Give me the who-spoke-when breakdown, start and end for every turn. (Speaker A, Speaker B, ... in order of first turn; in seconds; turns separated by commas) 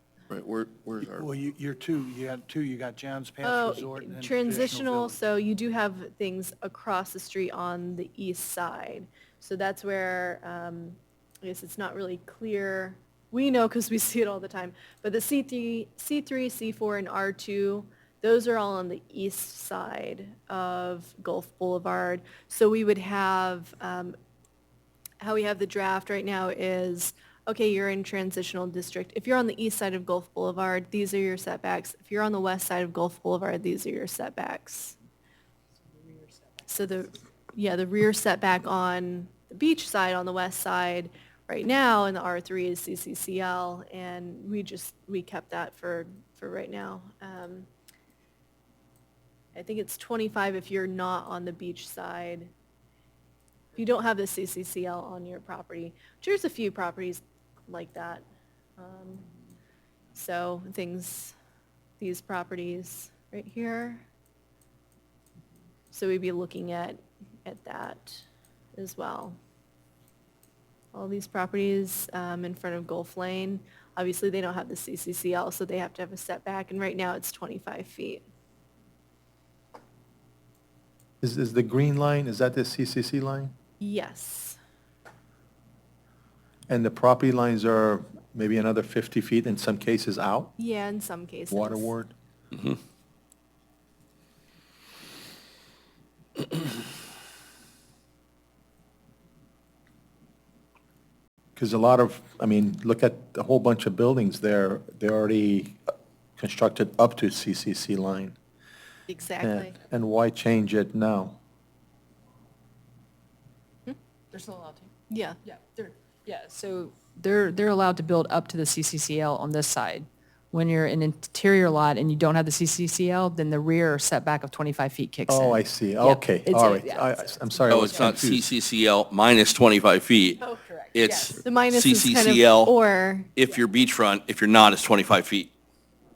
Speaker A: 0.3-1.3, Speaker B: 1.0-5.2, Speaker C: 3.4-24.1, Speaker C: 25.2-35.0, Speaker C: 36.7-47.7, Speaker C: 49.5-52.5, Speaker C: 53.8-58.2, Speaker C: 58.8-59.2, Speaker C: 60.1-61.3, Speaker C: 62.0-64.0, Speaker C: 65.9-68.2, Speaker C: 68.8-69.4, Speaker C: 70.9-78.2, Speaker D: 81.2-83.5, Speaker C: 83.8-84.6, Speaker D: 86.7-90.5, Speaker C: 90.6-91.9, Speaker D: 91.5-92.1, Speaker D: 101.5-105.8, Speaker D: 106.4-108.3, Speaker C: 109.1-109.7, Speaker D: 109.4-111.4, Speaker E: 114.3-114.9, Speaker C: 115.1-115.4, Speaker E: 115.5-128.0, Speaker D: 125.3-128.5, Speaker A: 127.7-130.4, Speaker E: 130.4-131.4, Speaker A: 130.9-132.7, Speaker C: 131.4-133.3, Speaker A: 133.3-135.5